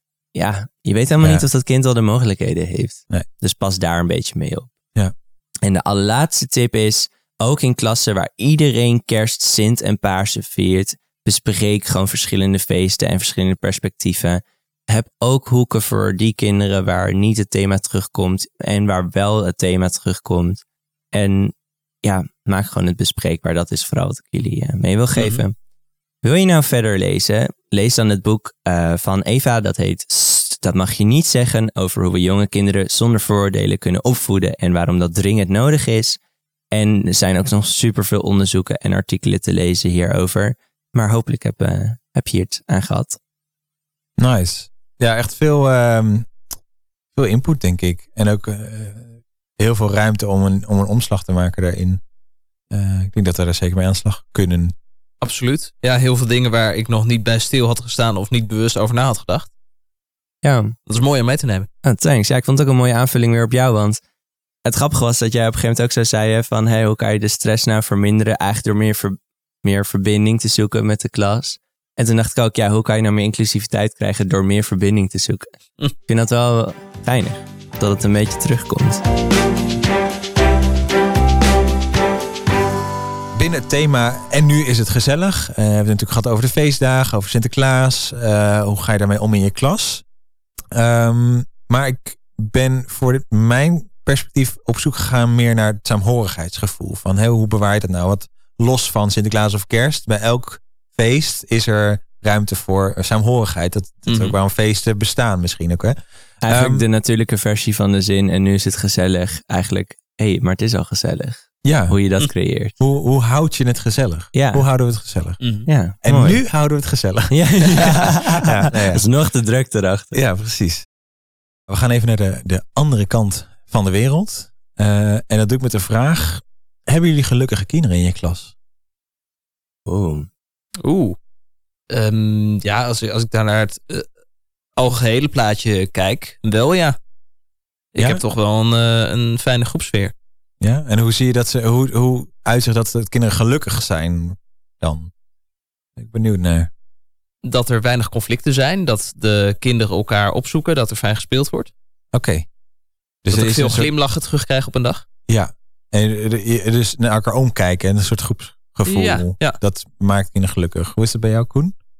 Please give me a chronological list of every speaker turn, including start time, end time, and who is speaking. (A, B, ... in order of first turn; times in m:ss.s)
0:00.3-0:04.7 A
0:05.6-0:20.6 A
0:21.1-0:21.5 A
0:22.0-0:25.5 A
0:25.2-0:25.4 B
0:26.2-0:36.2 A
0:36.7-0:43.2 A
0:44.2-0:46.3 C
0:47.1-0:52.0 C
0:52.7-0:54.7 C
0:55.2-0:59.5 B
1:00.4-1:00.7 A
1:00.9-1:01.7 B
1:01.8-1:04.0 A
1:04.6-1:15.5 A
1:16.0-1:19.0 A
1:23.3-1:30.0 C
1:30.7-1:46.0 C
1:44.1-1:44.3 B
1:46.4-1:52.8 A
1:46.5-1:46.8 C
1:51.6-1:52.0 C
1:52.8-1:55.4 C
1:54.3-1:54.6 A
1:55.4-1:55.7 B
1:55.6-1:56.4 A
1:56.0-1:59.0 C
1:57.3-2:00.2 A
2:00.1-2:00.8 C
2:01.7-2:08.5 C
2:09.9-2:10.3 A
2:10.8-2:11.2 B
2:11.9-2:14.0 B
2:14.8-2:17.0 B
2:17.9-2:20.1 B
2:18.0-2:18.2 C
2:20.6-2:25.1 C
2:26.0-2:26.7 C
2:27.4-2:31.7 B
2:32.1-2:32.5 C
2:33.2-2:33.9 C
2:33.3-2:35.0 B
2:35.3-2:41.8 C
2:38.9-2:39.6 B